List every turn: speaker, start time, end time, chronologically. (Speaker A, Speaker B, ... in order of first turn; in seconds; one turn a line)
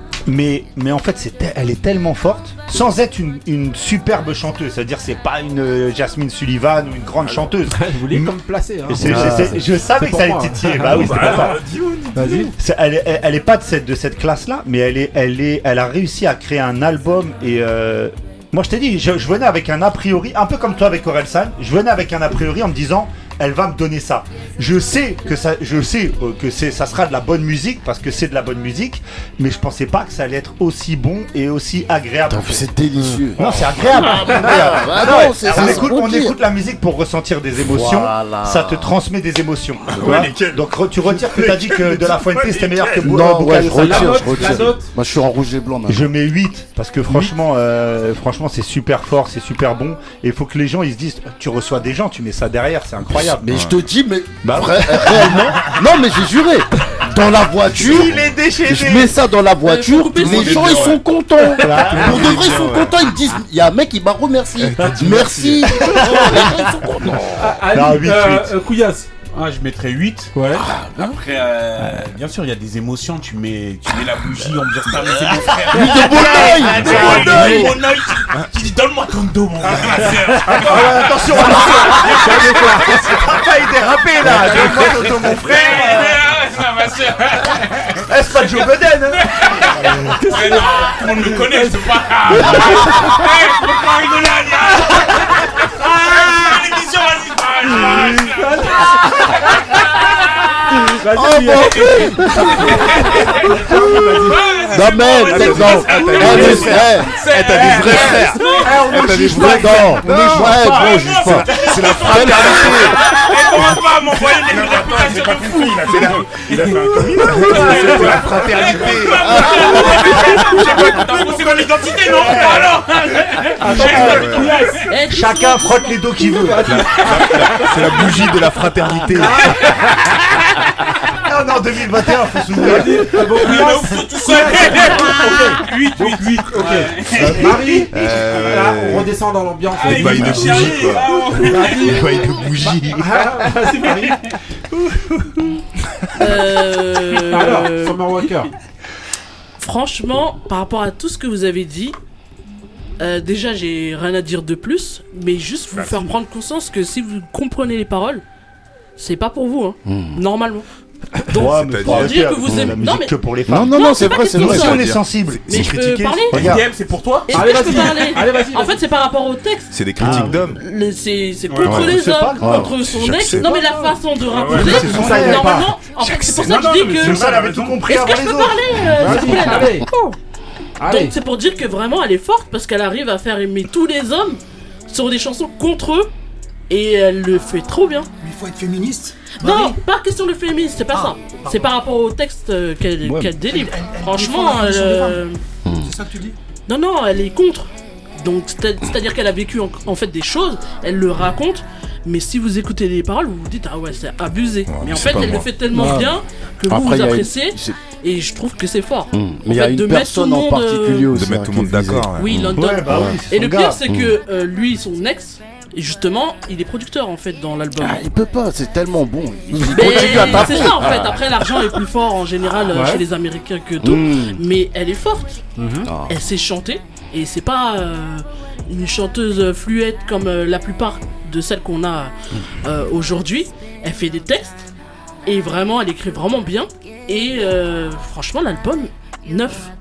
Speaker A: 0.3-8.3
Speaker B: 7.7-11.5
Speaker A: 8.9-11.6
Speaker C: 9.0-9.6
Speaker D: 10.8-12.5
Speaker B: 12.1-12.5
Speaker A: 12.6-32.8
Speaker C: 32.3-36.4
Speaker A: 33.4-44.7
Speaker B: 35.3-35.6
Speaker C: 37.6-39.0
Speaker D: 39.9-43.3
Speaker C: 43.0-46.1
Speaker B: 43.7-44.9
Speaker A: 45.9-53.6
Speaker B: 47.1-47.3
Speaker C: 53.1-67.5
Speaker E: 53.4-53.8
Speaker A: 54.4-55.7
Speaker E: 57.9-58.4
Speaker F: 59.6-61.0
Speaker E: 60.3-60.8
Speaker A: 61.6-62.5
Speaker E: 61.9-63.0
Speaker E: 64.6-65.7
Speaker A: 65.9-66.5
Speaker B: 66.1-66.5
Speaker A: 67.0-68.5
Speaker B: 67.3-69.1
Speaker G: 69.3-70.3
Speaker B: 70.3-70.6
Speaker G: 71.0-83.0
Speaker A: 75.7-77.7
Speaker C: 75.7-77.8
Speaker A: 80.6-86.2
Speaker B: 82.2-83.2
Speaker B: 84.2-85.4
Speaker G: 85.3-98.5
Speaker A: 88.1-90.1
Speaker B: 90.2-90.5
Speaker B: 91.3-92.7
Speaker B: 98.2-99.3
Speaker B: 100.7-104.4
Speaker C: 101.1-102.9
Speaker G: 102.7-103.5
Speaker G: 104.1-108.8
Speaker C: 104.7-107.1
Speaker E: 105.3-108.2
Speaker B: 106.2-106.7
Speaker A: 106.4-106.8
Speaker A: 107.3-112.3
Speaker B: 108.6-109.8
Speaker C: 108.9-112.9
Speaker E: 108.9-113.0
Speaker G: 110.6-124.7
Speaker E: 113.5-113.8
Speaker E: 114.3-116.3
Speaker D: 114.5-119.2
Speaker E: 117.1-120.3
Speaker B: 117.4-117.9
Speaker A: 122.3-122.6
Speaker F: 122.8-123.1
Speaker B: 123.6-124.8
Speaker A: 123.7-124.2
Speaker F: 123.8-126.5
Speaker E: 123.8-124.6
Speaker A: 125.1-126.8
Speaker B: 126.4-127.5
Speaker E: 126.7-129.7
Speaker F: 127.7-128.6
Speaker B: 129.1-129.6
Speaker A: 131.2-133.1
Speaker B: 132.6-140.8
Speaker G: 133.3-137.8
Speaker E: 137.9-139.1
Speaker G: 139.8-142.5
Speaker E: 139.8-143.2
Speaker B: 141.6-142.0
Speaker B: 142.9-144.2
Speaker F: 146.2-148.0
Speaker B: 147.3-148.5
Speaker F: 149.6-151.9
Speaker F: 153.0-158.2
Speaker G: 155.7-156.1
Speaker F: 159.0-160.6
Speaker C: 159.8-160.2
Speaker F: 161.3-163.2
Speaker A: 161.3-166.6
Speaker E: 161.4-162.2
Speaker C: 162.4-162.8
Speaker C: 163.5-164.9
Speaker F: 163.7-164.9
Speaker E: 164.4-165.6
Speaker F: 165.4-166.5
Speaker G: 166.3-167.9
Speaker F: 167.3-179.8
Speaker B: 167.3-168.7
Speaker E: 169.7-170.6
Speaker A: 170.0-170.4
Speaker B: 171.5-171.9
Speaker E: 171.6-172.0
Speaker A: 171.8-172.4
Speaker C: 172.4-172.7
Speaker E: 172.8-173.9
Speaker D: 174.2-175.3
Speaker A: 174.5-175.8
Speaker E: 175.0-175.5
Speaker D: 176.0-178.1
Speaker A: 176.9-179.5
Speaker B: 179.0-180.1
Speaker B: 180.8-181.1
Speaker F: 180.8-186.1
Speaker F: 186.7-188.1
Speaker H: 188.2-189.8
Speaker F: 189.3-195.4
Speaker H: 190.9-191.7
Speaker H: 193.1-195.2
Speaker C: 195.6-195.9
Speaker H: 195.8-196.3
Speaker F: 196.7-211.1
Speaker E: 204.7-205.5
Speaker G: 204.8-205.4
Speaker C: 205.7-206.1
Speaker C: 206.7-207.8
Speaker C: 209.1-212.3
Speaker E: 211.1-212.5
Speaker F: 212.2-218.0
Speaker A: 212.5-213.8
Speaker C: 212.9-213.2
Speaker C: 213.9-214.1
Speaker C: 217.8-221.6
Speaker F: 219.7-225.4
Speaker B: 222.7-223.0
Speaker C: 223.8-224.4
Speaker B: 225.6-225.9
Speaker C: 225.8-226.2
Speaker F: 226.1-232.1
Speaker F: 232.6-234.7
Speaker F: 235.2-239.7